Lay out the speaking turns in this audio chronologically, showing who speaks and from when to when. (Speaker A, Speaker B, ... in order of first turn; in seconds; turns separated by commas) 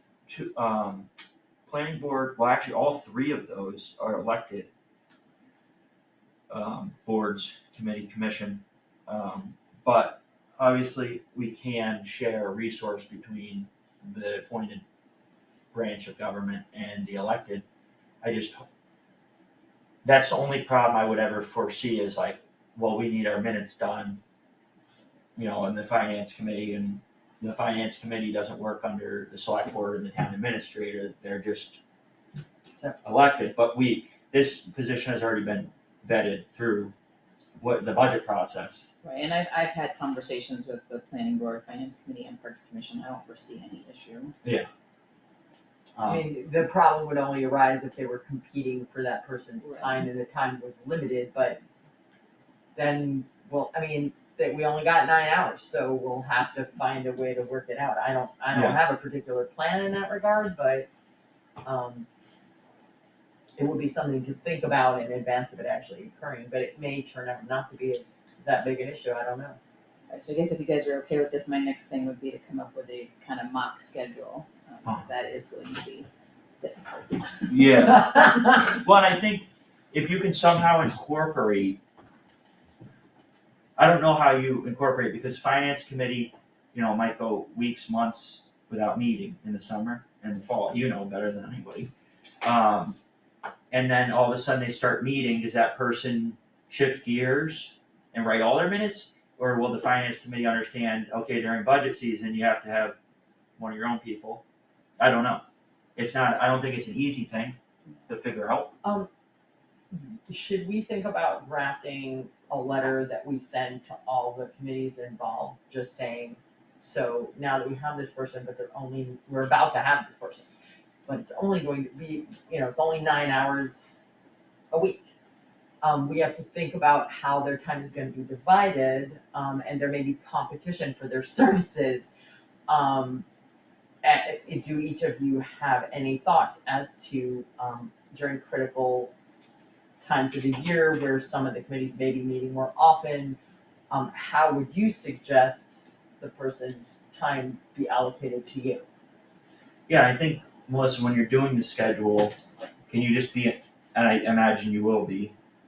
Speaker A: 0.3-1.1, Speaker A: 1.6-4.7, Speaker A: 6.5-14.8, Speaker A: 15.7-17.6, Speaker A: 18.2-18.6, Speaker A: 20.0-24.2, Speaker A: 25.4-31.8, Speaker A: 33.0-36.9, Speaker A: 37.6-38.9, Speaker B: 39.0-44.3, Speaker A: 46.0-46.2, Speaker C: 46.0-51.6, Speaker B: 49.6-49.9, Speaker C: 52.7-60.9, Speaker A: 58.5-58.8, Speaker C: 61.6-62.1, Speaker C: 63.6-69.6, Speaker B: 70.1-76.1, Speaker B: 76.6-77.7, Speaker A: 77.5-81.8, Speaker A: 83.8-91.9, Speaker A: 92.4-93.0, Speaker A: 93.7-103.0, Speaker A: 103.6-104.4, Speaker A: 105.0-105.4, Speaker A: 106.0-108.7, Speaker C: 108.8-109.1, Speaker C: 109.9-120.5, Speaker C: 121.0-124.0, Speaker C: 124.7-125.1, Speaker C: 125.8-132.2, Speaker C: 132.7-133.2, Speaker C: 134.0-139.1, Speaker C: 140.0-143.4, Speaker C: 143.9-148.8, Speaker A: 149.9-152.3, Speaker A: 152.9-155.3